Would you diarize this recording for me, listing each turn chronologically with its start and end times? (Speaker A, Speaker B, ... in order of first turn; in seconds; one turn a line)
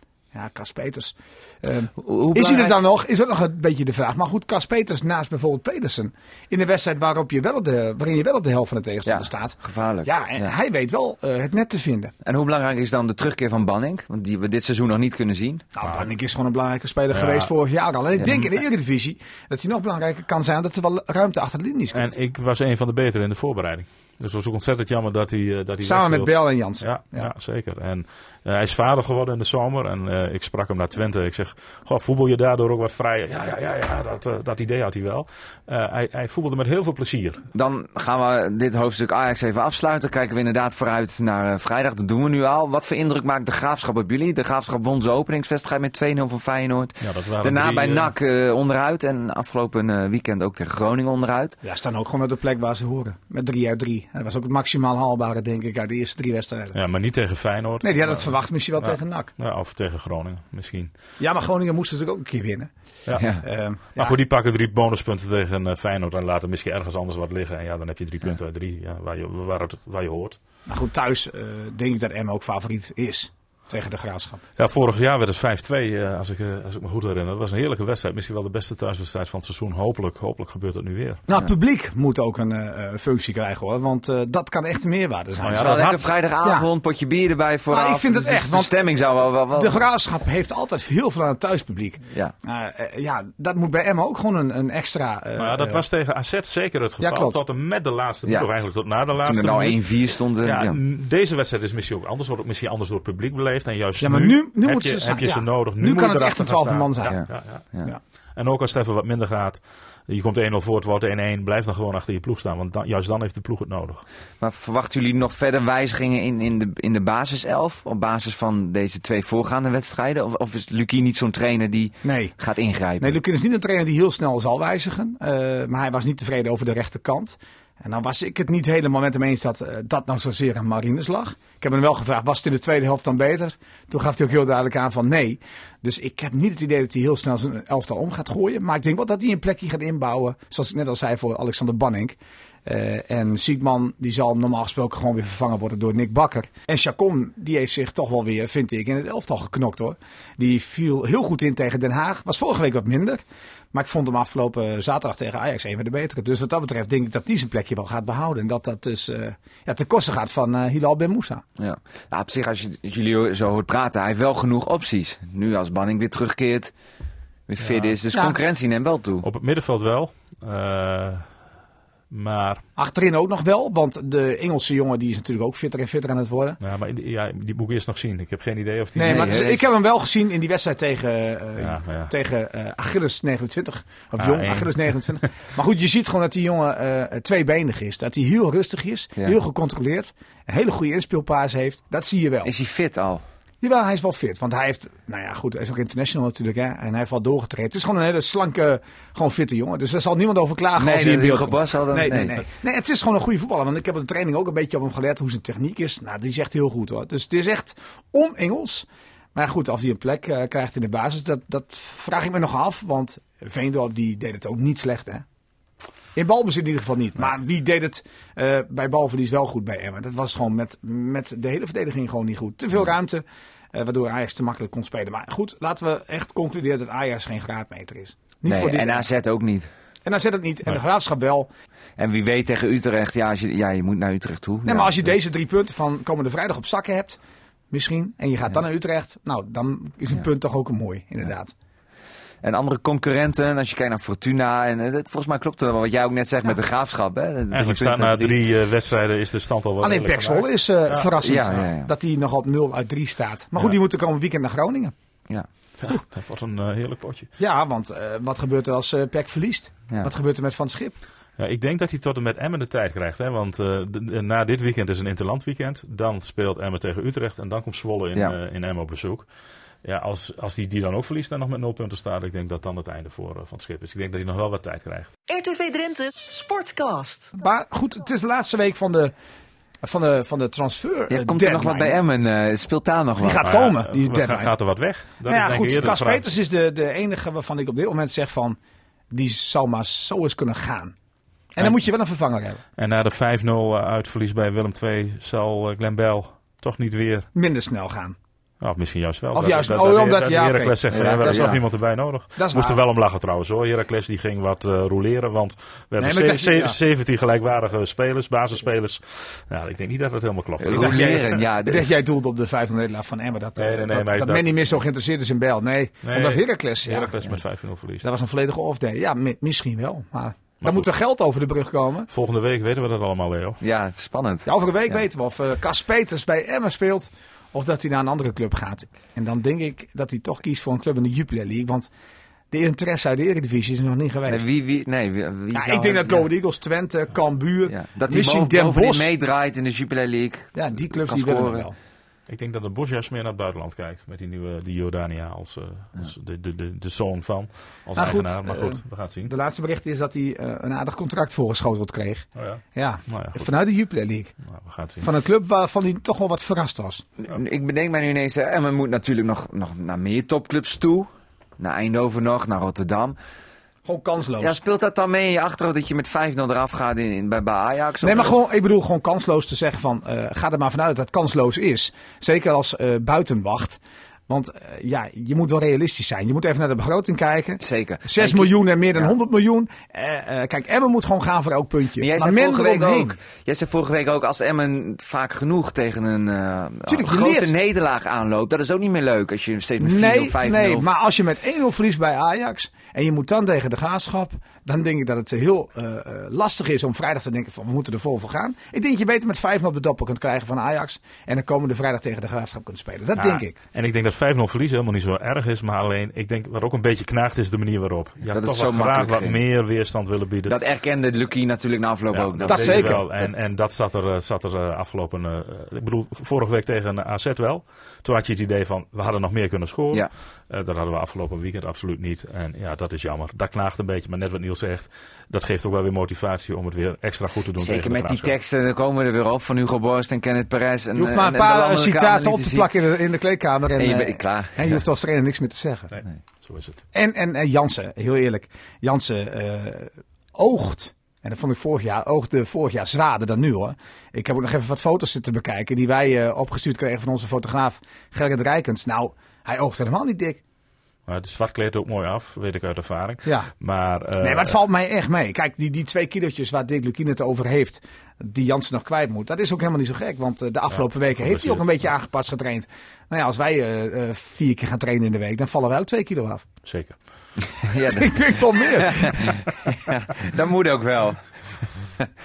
Speaker A: 0.3-12.1
Speaker B: 2.0-2.9
Speaker B: 9.1-10.5
Speaker B: 12.2-15.7
Speaker A: 15.8-22.1
Speaker C: 17.1-17.5
Speaker C: 21.9-37.5
Speaker A: 25.8-27.3
Speaker B: 37.5-51.6
Speaker C: 47.0-48.1
Speaker A: 51.6-56.8
Speaker C: 56.7-60.9
Speaker A: 57.8-59.3
Speaker A: 61.2-62.7
Speaker B: 63.2-63.4
Speaker A: 63.4-64.2
Speaker C: 64.0-70.4
Speaker A: 70.7-74.4
Speaker C: 74.6-81.2
Speaker A: 81.3-85.9
Speaker C: 85.4-86.0
Speaker B: 85.5-89.9
Speaker A: 86.4-86.7
Speaker A: 87.7-88.8
Speaker A: 89.5-95.8
Speaker C: 95.4-99.8
Speaker A: 97.0-97.4
Speaker B: 99.2-100.8
Speaker C: 100.4-107.6
Speaker A: 104.0-107.2
Speaker B: 107.1-107.9
Speaker C: 108.4-114.0
Speaker B: 114.4-123.2
Speaker A: 122.0-122.3
Speaker A: 123.0-153.2
Speaker A: 153.7-161.4
Speaker B: 161.6-166.7
Speaker B: 167.5-169.3
Speaker C: 167.6-167.9
Speaker A: 168.1-168.4
Speaker C: 169.2-171.2
Speaker C: 172.1-172.6
Speaker A: 172.8-176.6
Speaker C: 176.6-179.4
Speaker A: 178.9-192.5
Speaker B: 179.1-179.7
Speaker C: 181.6-182.1
Speaker C: 184.2-185.2
Speaker B: 192.4-193.2
Speaker A: 193.6-215.2
Speaker B: 200.8-202.4
Speaker A: 216.2-229.1
Speaker B: 228.5-229.7
Speaker A: 230.1-231.5
Speaker B: 232.0-235.1
Speaker A: 234.7-237.2
Speaker A: 237.7-241.5
Speaker B: 242.4-248.4
Speaker C: 247.5-251.1
Speaker A: 249.8-254.9
Speaker B: 251.0-251.9
Speaker C: 255.8-257.3
Speaker A: 257.4-261.0
Speaker C: 261.4-269.3
Speaker C: 269.9-275.1
Speaker D: 275.3-277.4
Speaker A: 277.4-279.1
Speaker A: 279.8-282.0
Speaker B: 281.1-283.5
Speaker A: 283.2-284.5
Speaker C: 283.4-286.2
Speaker A: 285.2-288.6
Speaker A: 289.1-290.9
Speaker A: 291.6-292.6
Speaker C: 292.8-297.3
Speaker A: 297.4-298.2
Speaker C: 298.6-311.4
Speaker A: 299.3-301.6
Speaker B: 300.9-301.6
Speaker A: 302.4-302.8
Speaker A: 306.0-306.8
Speaker B: 310.6-311.9
Speaker A: 310.7-317.1
Speaker C: 313.6-314.6
Speaker C: 316.0-318.1
Speaker A: 318.0-322.1
Speaker C: 320.6-320.9
Speaker C: 322.1-323.6
Speaker B: 323.6-325.0
Speaker A: 324.5-331.9
Speaker A: 332.5-334.5
Speaker B: 334.3-336.3
Speaker A: 335.5-339.1
Speaker B: 337.7-341.7
Speaker A: 340.6-341.8
Speaker C: 342.3-349.3
Speaker A: 347.9-354.3
Speaker C: 352.4-353.5
Speaker C: 354.5-355.1
Speaker A: 355.0-357.1
Speaker B: 357.2-363.2
Speaker A: 363.9-364.6
Speaker B: 364.4-368.4
Speaker A: 368.0-383.2
Speaker B: 377.6-379.1
Speaker B: 382.0-391.0
Speaker A: 386.9-387.5
Speaker A: 389.8-403.6
Speaker C: 403.2-410.5
Speaker B: 408.3-409.4
Speaker B: 410.5-413.3
Speaker C: 412.1-428.3
Speaker A: 412.5-413.0
Speaker B: 427.6-432.7
Speaker A: 430.9-435.9
Speaker B: 433.8-434.8
Speaker C: 435.9-436.8
Speaker A: 436.9-450.4
Speaker C: 451.1-454.6
Speaker A: 453.2-453.5
Speaker A: 454.2-466.4
Speaker C: 460.7-461.8
Speaker C: 466.6-467.0
Speaker B: 467.6-469.4
Speaker A: 467.9-469.4
Speaker B: 469.9-471.2